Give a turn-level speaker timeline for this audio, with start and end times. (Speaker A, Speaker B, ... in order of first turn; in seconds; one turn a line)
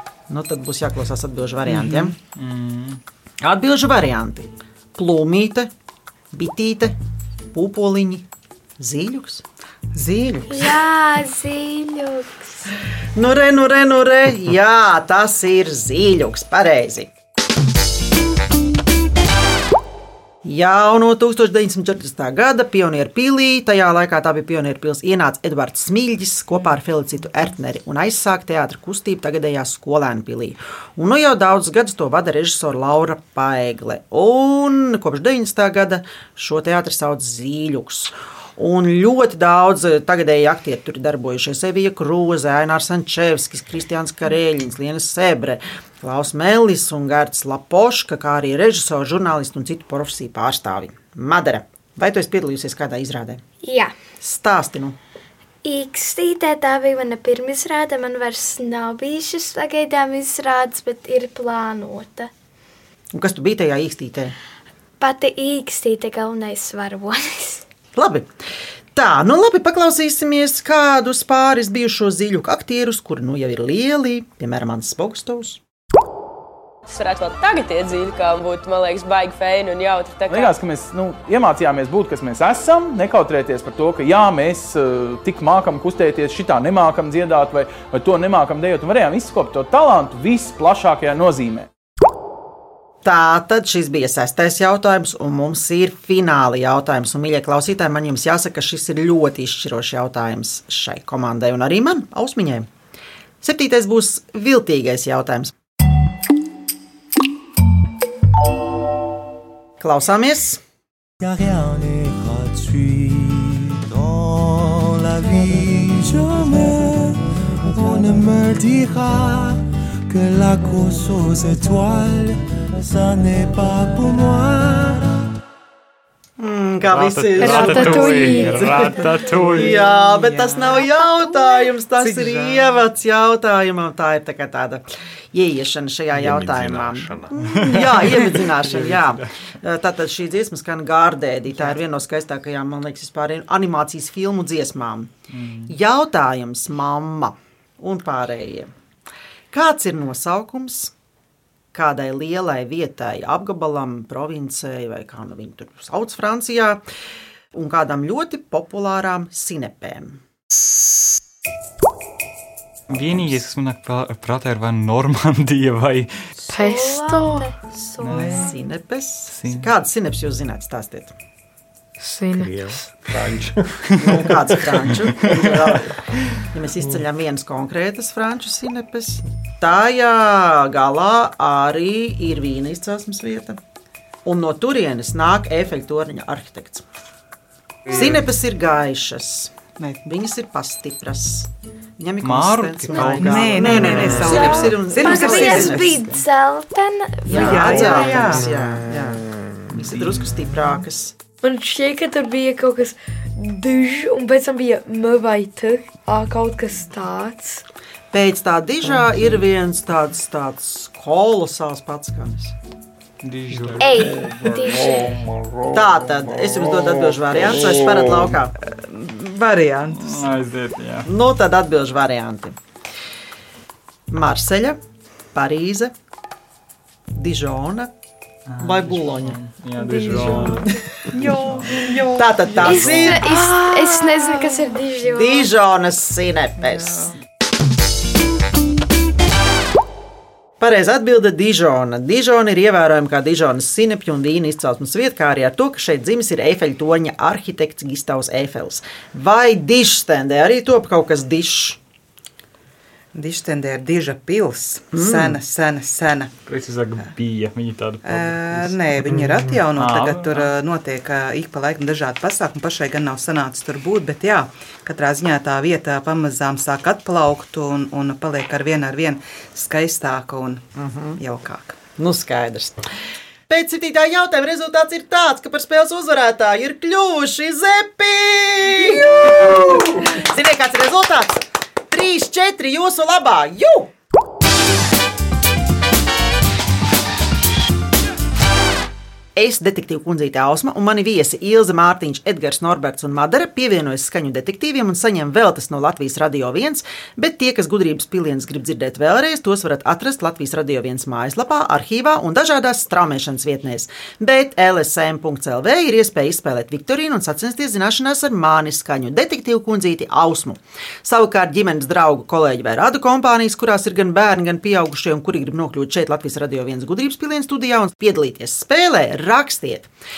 Speaker A: 0.3-2.1
Speaker B: 2.3-3.0
Speaker A: 3.4-5.7
Speaker A: 6.3-7.0
Speaker A: 7.5-8.3
Speaker A: 8.8-9.4
Speaker C: 9.9-10.6
Speaker D: 10.5-12.7
Speaker A: 13.1-17.1
Speaker A: 20.4-53.4
Speaker D: 53.6-53.9
Speaker A: 54.2-55.0
Speaker D: 55.6-62.3
Speaker A: 63.1-64.3
Speaker D: 65.0-67.6
Speaker A: 67.9-68.3
Speaker A: 68.9-75.6
Speaker E: 76.9-80.6
Speaker F: 80.3-91.7
Speaker A: 93.0-102.7
Speaker A: 103.4-105.5
Speaker A: 109.8-110.6
Speaker G: 111.2-125.2
Speaker A: 126.4-145.1
Speaker B: 126.9-129.8
Speaker H: 127.4-128.8
Speaker C: 130.0-130.8
Speaker C: 132.0-132.8
Speaker I: 136.1-137.6
Speaker B: 137.5-139.2
Speaker B: 145.3-145.7
Speaker A: 145.7-148.7
Speaker A: 149.5-150.9
Speaker A: 151.7-156.8
Speaker A: 157.5-160.2
Speaker A: 162.9-163.3
Speaker B: 162.9-166.1
Speaker H: 166.5-167.5
Speaker D: 166.5-168.5
Speaker B: 168.0-168.6
Speaker A: 168.1-171.1
Speaker B: 169.3-169.7
Speaker H: 172.0-172.7
Speaker I: 172.4-175.5
Speaker A: 173.9-183.6
Speaker A: 184.2-186.8
Speaker A: 187.9-189.5
Speaker A: 190.0-196.0
Speaker B: 192.2-194.3
Speaker C: 192.9-196.1
Speaker D: 194.2-198.1
Speaker C: 197.2-198.5
Speaker A: 197.3-201.1
Speaker H: 201.4-207.6
Speaker A: 208.1-212.5
Speaker B: 213.2-214.1
Speaker I: 213.5-218.4
Speaker D: 213.8-215.1
Speaker A: 215.7-218.5
Speaker C: 218.6-220.2
Speaker B: 219.9-221.1
Speaker A: 221.0-222.6
Speaker A: 224.1-224.8
Speaker A: 225.3-225.9
Speaker A: 227.1-227.9
Speaker B: 228.5-230.7
Speaker A: 228.6-229.4
Speaker H: 229.8-230.7
Speaker A: 230.1-231.3
Speaker H: 231.2-234.9
Speaker B: 231.3-231.8
Speaker A: 232.1-233.3
Speaker D: 232.6-235.5
Speaker A: 235.0-237.1
Speaker A: 240.6-251.8
Speaker C: 253.1-256.3
Speaker A: 254.9-255.4
Speaker B: 256.4-259.2
Speaker C: 258.0-270.6
Speaker B: 259.7-260.5
Speaker A: 270.7-271.2
Speaker C: 271.2-271.8
Speaker A: 272.0-272.9
Speaker A: 273.5-283.9
Speaker A: 289.3-319.9